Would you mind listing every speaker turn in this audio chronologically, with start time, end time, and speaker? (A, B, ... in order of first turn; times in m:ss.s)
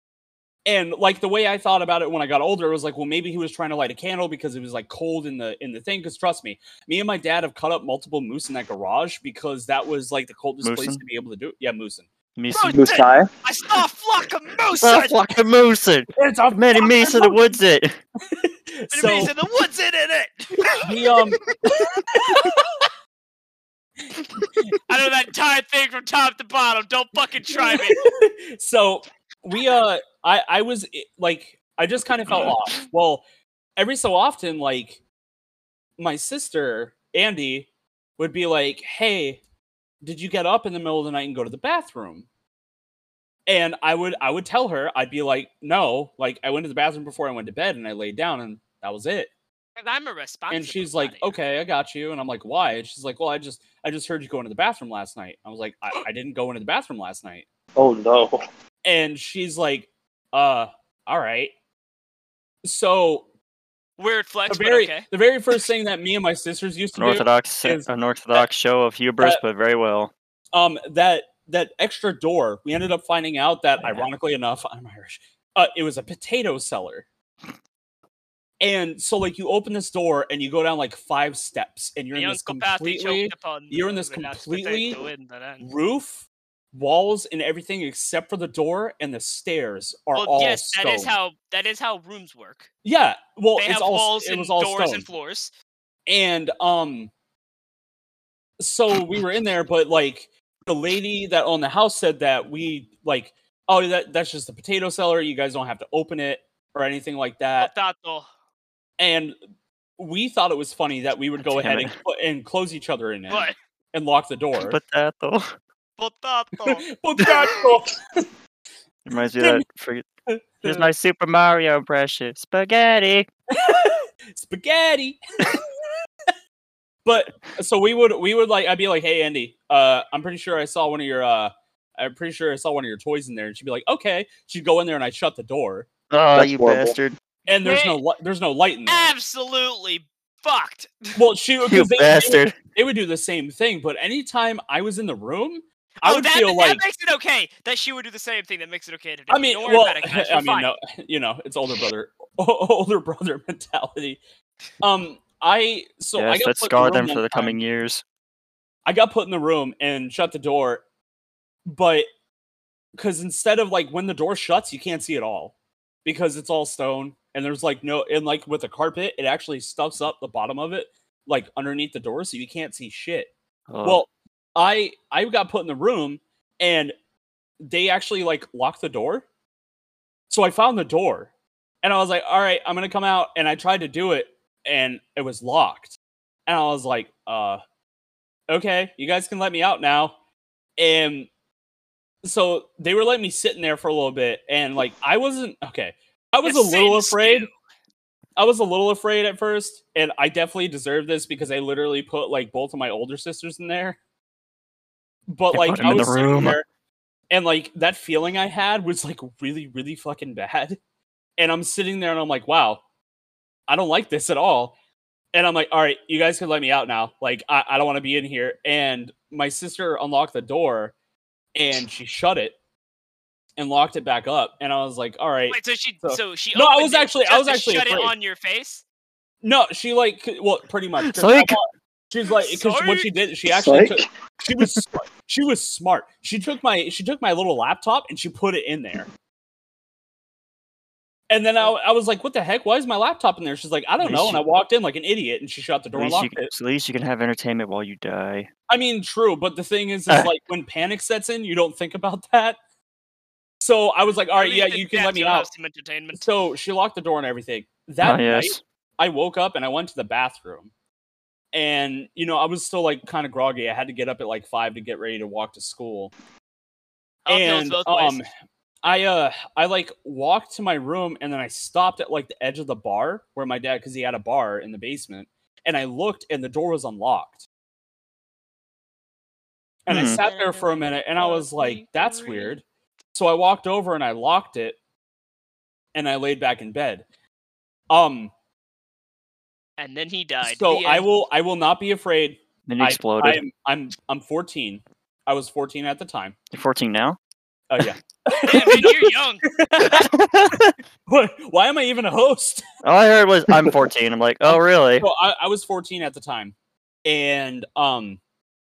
0:00.6-0:12.1 A
0:10.6-0:11.0 B
0:12.4-0:12.8 B
0:12.5-0:15.2 C
0:12.7-0:13.3 D
0:14.8-0:18.0 B
0:16.2-0:17.5 A
0:18.3-0:19.3 A
0:18.9-0:21.0 C
0:20.7-0:22.6 A
0:22.3-0:22.6 C
0:24.9-0:28.0 C
0:27.5-0:33.2 A
0:33.8-0:35.0 A
0:36.0-0:39.4 A
0:40.0-0:42.2 A
0:43.5-0:49.3 A
0:49.8-0:51.4 C
0:50.5-0:57.4 A
0:57.8-0:58.4 D
0:58.8-1:01.5 A
1:02.6-1:03.3 A
1:04.0-1:05.1 C
1:04.5-1:08.5 A
1:06.9-1:10.1 B
1:10.5-1:17.1 A
1:13.8-1:14.0 B
1:18.6-1:25.0 A
1:22.1-1:25.7 C
1:25.6-1:31.1 A
1:30.2-1:32.7 C
1:32.8-1:35.0 A
1:33.6-1:35.5 C
1:36.1-1:37.1 A
1:38.6-1:47.7 A
1:47.6-1:48.3 C
1:49.0-1:49.3 A
1:50.0-1:54.8 A
1:51.4-1:51.9 B
1:53.3-1:53.6 C
1:54.6-1:55.5 B
1:56.0-1:56.8 C
1:56.6-1:58.2 A
1:59.0-2:00.0 B
1:59.4-1:59.6 A
2:00.3-2:00.9 A
2:00.6-2:03.3 B
2:03.5-2:05.7 A
2:07.0-2:15.9 A
2:16.1-2:17.2 B
2:16.3-2:17.0 D
2:17.5-2:19.1 A
2:17.6-2:18.0 C
2:18.8-2:21.2 C
2:21.1-2:26.8 A
2:21.6-2:22.5 B
2:26.0-2:30.7 C
2:29.3-2:34.2 A
2:34.8-2:37.6 A
2:36.2-2:38.0 B
2:38.8-2:40.8 A
2:41.6-2:42.0 A
2:43.0-2:45.5 A
2:46.0-2:53.3 A
2:53.7-2:54.0 B
2:53.8-2:56.9 A
2:57.6-2:59.2 A
3:00.3-3:01.3 A
3:01.8-3:07.6 A
3:08.5-3:10.1 A
3:10.8-3:11.3 A
3:12.2-3:17.5 A
3:16.4-3:17.5 C
3:18.4-3:24.0 A
3:25.3-3:26.6 A
3:25.5-3:26.6 B
3:27.3-3:30.8 A
3:31.4-3:32.8 A
3:33.7-3:34.7 A
3:35.3-3:40.9 A
3:41.5-3:42.5 A
3:43.6-3:48.1 A
3:45.5-3:48.8 C
3:49.4-3:59.1 A
3:51.0-3:51.6 B
3:52.4-3:53.1 C
3:53.5-3:54.0 D
4:01.3-4:06.5 A
4:04.0-4:04.4 B
4:05.9-4:08.5 B
4:08.7-4:12.6 A
4:13.6-4:15.5 A
4:14.3-4:16.2 C
4:16.2-4:20.7 A
4:18.0-4:18.6 B
4:21.5-4:26.1 A
4:27.2-4:28.2 C
4:27.3-4:28.3 A
4:28.8-4:37.5 A
4:39.8-4:42.6 A
4:39.9-4:40.2 B
4:40.0-4:42.6 C
4:43.1-4:44.8 A
4:45.9-4:47.0 A
4:47.9-4:48.3 A
4:49.8-4:51.1 C
4:50.4-4:56.3 A
4:52.7-4:53.4 B
4:56.5-4:57.2 B
4:57.7-5:00.5 A
4:58.4-4:59.4 C
4:59.8-5:00.7 B
5:01.1-5:02.6 A
5:02.8-5:05.1 B
5:03.5-5:03.8 D
5:04.4-5:06.5 A
5:07.0-5:08.2 A